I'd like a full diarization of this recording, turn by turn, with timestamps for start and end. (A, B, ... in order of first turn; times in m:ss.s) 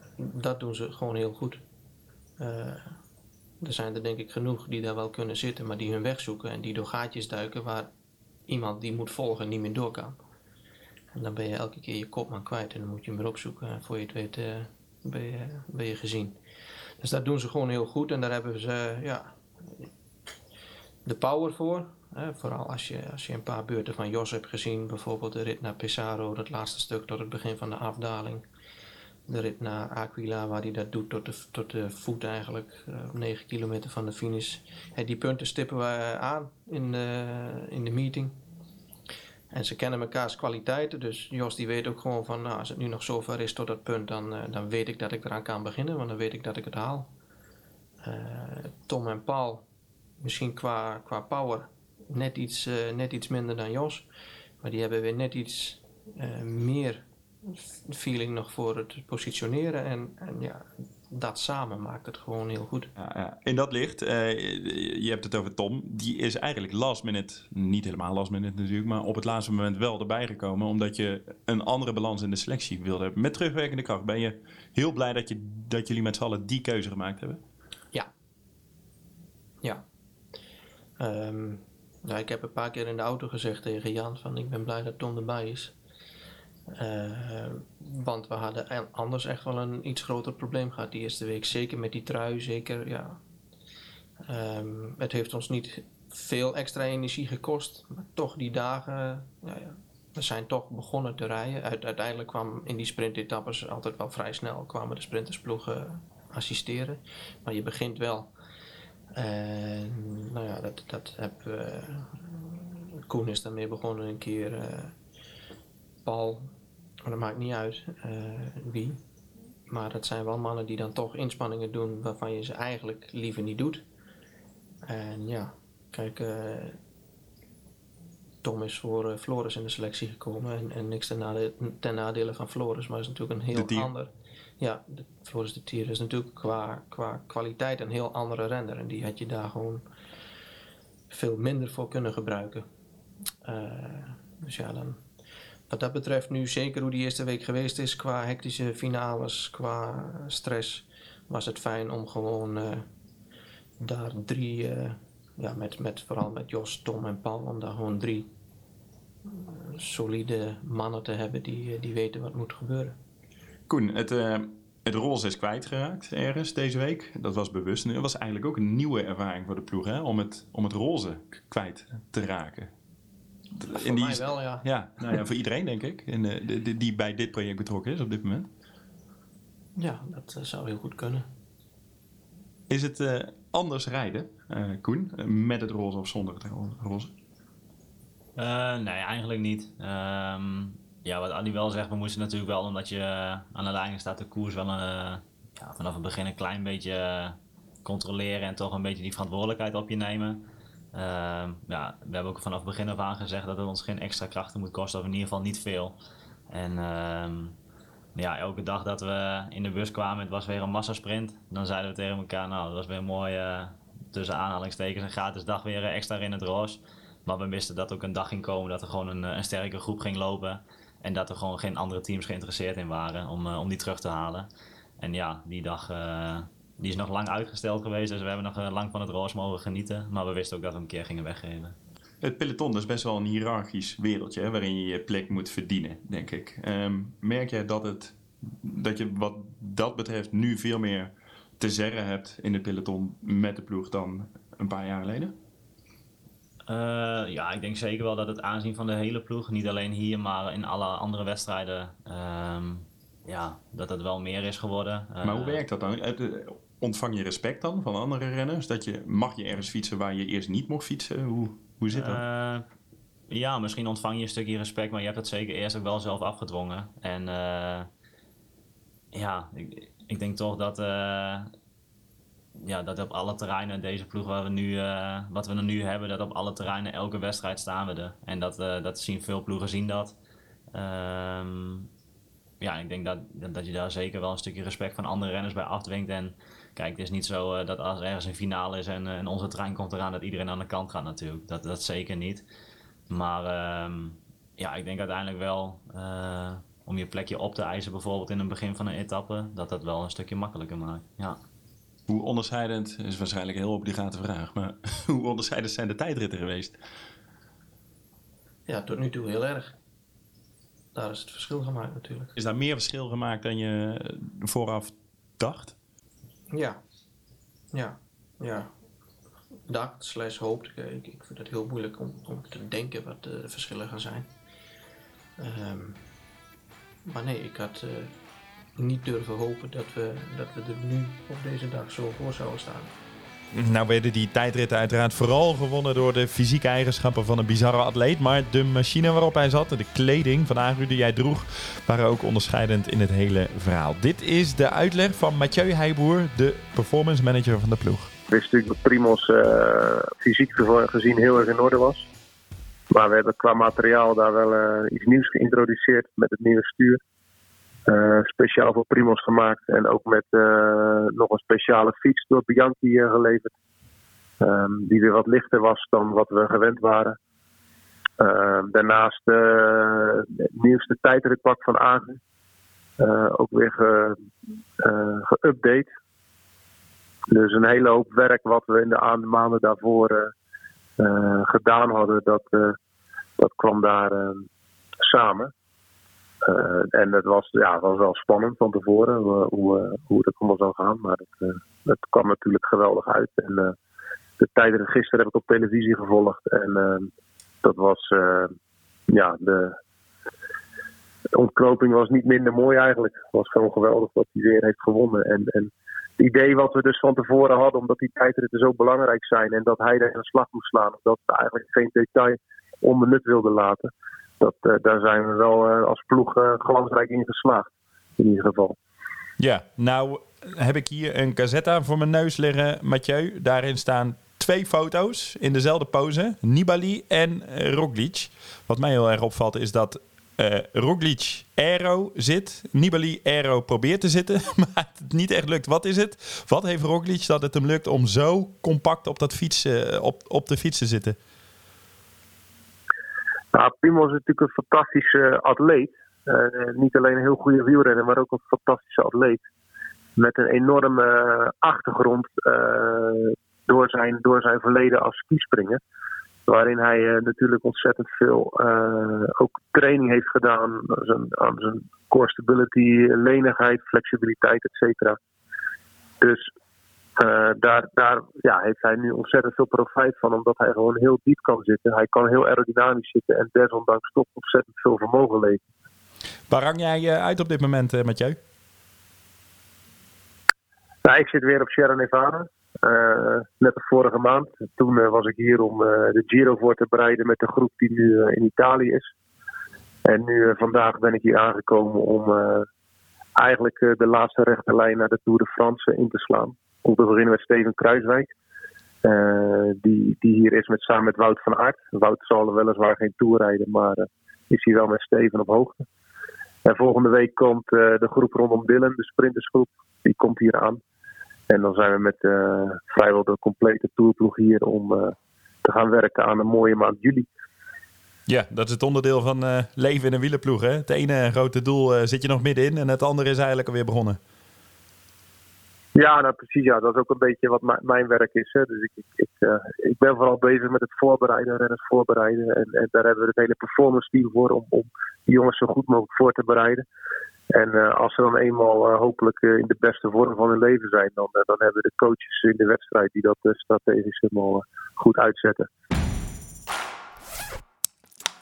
0:00.2-0:01.6 A
0:02.4-0:03.0 A
0:03.6-0:07.9 A
0:08.5-0:10.2 A
0:11.1-0:16.4 A
0:17.0-0:19.9 A
0:21.0-0:28.4 A
0:29.3-0:38.4 A
0:39.5-0:47.1 A
0:48.0-0:49.6 A
0:50.2-0:54.1 A
0:54.6-1:02.9 A
1:03.0-1:17.4 B
1:21.0-1:25.7 A
1:26.7-1:33.2 A
1:34.2-1:48.3 A
1:49.1-1:54.9 A
1:56.0-1:56.5 A
1:57.0-1:59.0 A
1:59.7-2:03.8 A
2:04.8-2:06.8 A
2:08.4-2:19.8 A
2:13.5-2:13.9 B
2:21.1-2:22.7 A
2:23.4-2:25.0 A
2:25.7-2:32.9 A
2:33.8-2:38.3 A
2:39.3-2:43.0 A
2:43.7-2:52.7 B
2:53.6-2:58.5 B
2:53.7-2:55.2 A
2:59.8-3:01.3 A
3:02.7-3:07.1 B
3:08.4-3:20.4 C
3:20.9-3:26.0 C
3:26.5-3:27.6 C
3:28.2-3:44.5 C
3:45.0-3:51.8 C
3:52.2-4:05.3 B
4:06.7-4:15.6 C
4:15.2-4:22.2 B
4:21.9-4:22.6 C
4:23.3-4:27.9 C
4:29.1-4:31.5 C
4:32.6-4:40.1 C
4:40.7-4:41.9 C
4:42.6-4:52.4 C
4:53.1-5:01.4 C
5:02.1-5:06.8 B
5:08.7-5:09.8 A
5:10.9-5:12.3 A
5:12.4-5:15.8 B
5:16.5-5:16.8 A
5:17.7-5:18.7 A
5:19.7-5:24.3 A
5:25.4-5:26.0 A
5:27.0-5:28.1 A
5:28.8-5:32.9 A
5:33.5-5:48.1 D
5:48.3-5:52.1 E
5:52.9-5:57.0 E
5:57.9-6:03.5 E
6:04.4-6:07.2 E
6:08.2-6:12.2 E
6:13.0-6:14.2 E
6:14.8-6:15.9 E
6:17.3-6:20.3 E
6:21.0-6:22.8 E
6:23.4-6:24.5 E
6:25.0-6:25.5 E
6:26.4-6:33.8 E
6:34.4-6:37.1 E
6:37.6-6:38.5 E
6:39.1-6:39.8 E
6:41.3-6:58.8 E
6:59.4-7:21.2 D
7:23.5-7:29.4 E
7:30.2-7:35.8 E
7:36.5-7:45.2 E
7:46.2-7:46.5 E
7:47.2-7:55.6 E
7:56.5-7:58.4 D
8:01.0-8:09.1 E
8:10.1-8:12.7 E
8:13.4-8:18.3 E
8:19.0-8:25.8 E
8:26.6-8:30.8 E
8:31.5-8:37.3 E
8:38.3-8:44.2 D
8:46.0-8:56.8 E
8:57.5-9:05.7 E